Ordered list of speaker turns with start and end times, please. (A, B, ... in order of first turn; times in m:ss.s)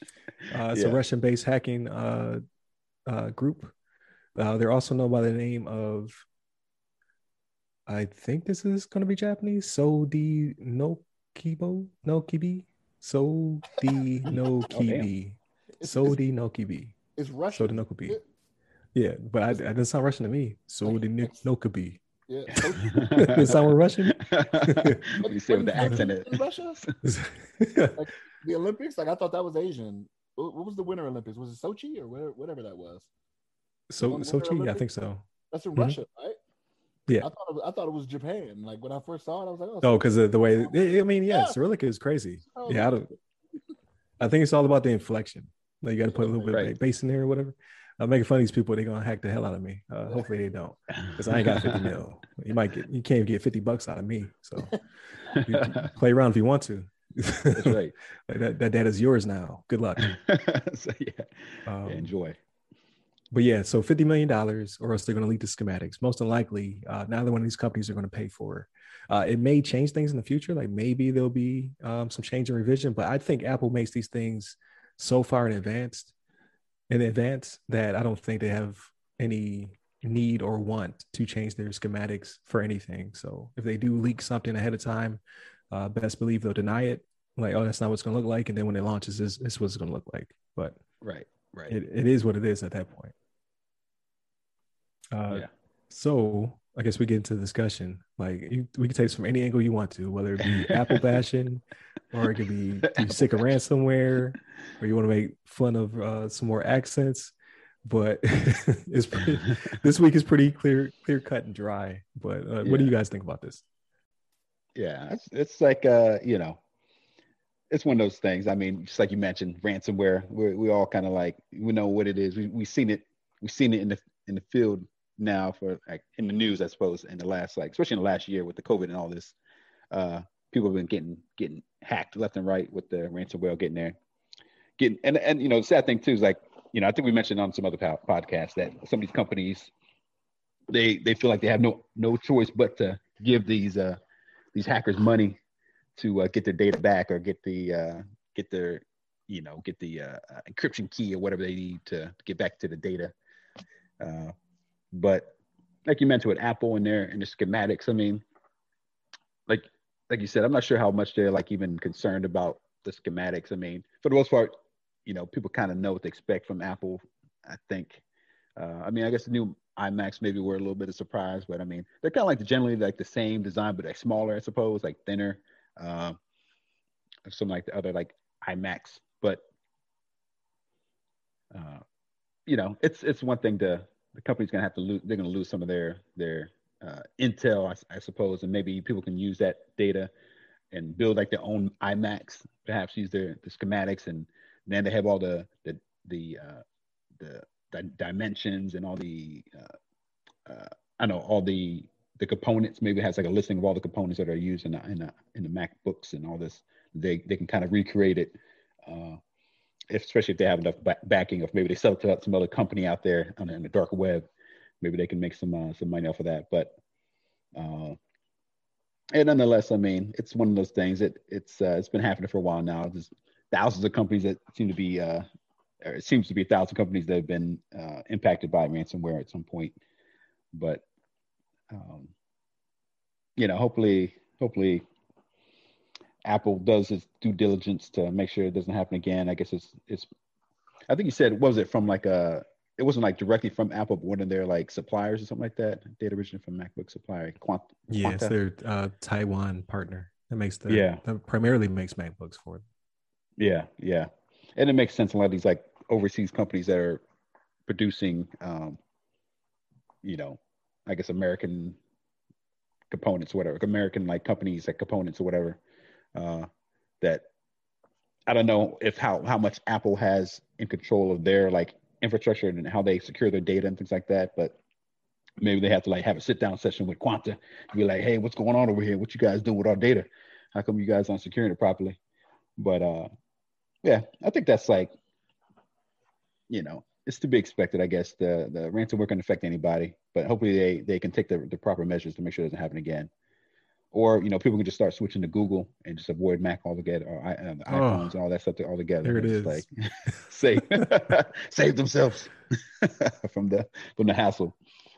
0:00.5-0:02.4 A
0:00.7-0:01.0 B
0:03.1-0:03.7 A
0:04.4-0:06.2 A
0:07.9-0:17.0 A
0:14.3-0:15.1 B
0:15.8-0:16.2 C
0:17.2-0:18.2 C
0:17.5-0:18.2 A
0:19.0-0:22.0 A
0:22.3-0:23.2 C
0:22.5-0:23.6 B
0:23.2-0:25.0 A
0:24.1-0:26.9 B
0:25.2-0:26.8 C
0:27.0-0:28.0 A
0:28.0-0:33.1 C
0:33.9-0:35.2 A
0:34.0-0:34.8 C
0:35.5-0:36.4 C
0:37.2-0:41.6 C
0:39.8-0:43.1 A
0:42.6-0:42.9 C
0:44.2-0:57.8 A
0:46.5-0:46.7 B
0:51.3-0:51.8 B
0:55.3-0:55.9 B
0:57.5-0:58.0 B
0:58.3-1:00.1 A
1:00.0-1:01.3 B
1:01.7-1:02.1 A
1:01.8-1:02.4 B
1:03.3-1:16.1 A
1:16.9-1:30.8 A
1:31.0-1:31.8 B
1:31.7-1:33.2 A
1:35.1-1:47.3 A
1:40.4-1:40.9 B
1:47.8-1:53.6 A
1:52.6-1:53.0 B
1:54.8-1:56.6 B
1:57.7-2:09.4 B
2:09.9-2:14.0 B
2:14.8-2:19.7 B
2:20.7-2:24.0 B
2:24.6-2:25.4 B
2:26.0-2:33.1 B
2:34.0-2:34.3 B
2:34.9-2:35.3 B
2:35.9-2:38.2 B
2:39.5-2:44.5 B
2:45.1-2:48.0 B
2:48.6-2:56.2 B
2:57.3-2:59.4 B
3:01.5-3:01.8 B
3:02.5-3:10.1 B
3:10.7-3:16.6 B
3:17.2-3:19.7 B
3:20.5-3:29.2 B
3:29.9-3:34.3 B
3:34.8-3:36.8 B
3:37.6-3:38.0 B
3:39.1-3:45.2 B
3:45.8-3:49.8 B
3:50.5-3:50.8 B
3:51.7-3:52.1 B
3:53.4-3:54.9 B
3:56.3-4:00.1 B
4:00.9-4:08.4 B
4:07.9-4:12.6 A
4:10.7-4:11.0 B
4:13.4-4:17.0 B
4:17.7-4:18.8 B
4:20.0-4:21.8 B
4:22.9-4:25.6 B
4:26.2-4:26.5 B
4:28.3-4:34.6 B
4:35.4-4:42.0 B
4:42.6-4:43.1 B
4:43.8-4:44.9 B
4:46.5-4:53.1 B
4:53.9-4:59.7 B
4:57.7-4:58.1 A
4:59.0-5:00.3 A
5:00.3-5:04.6 B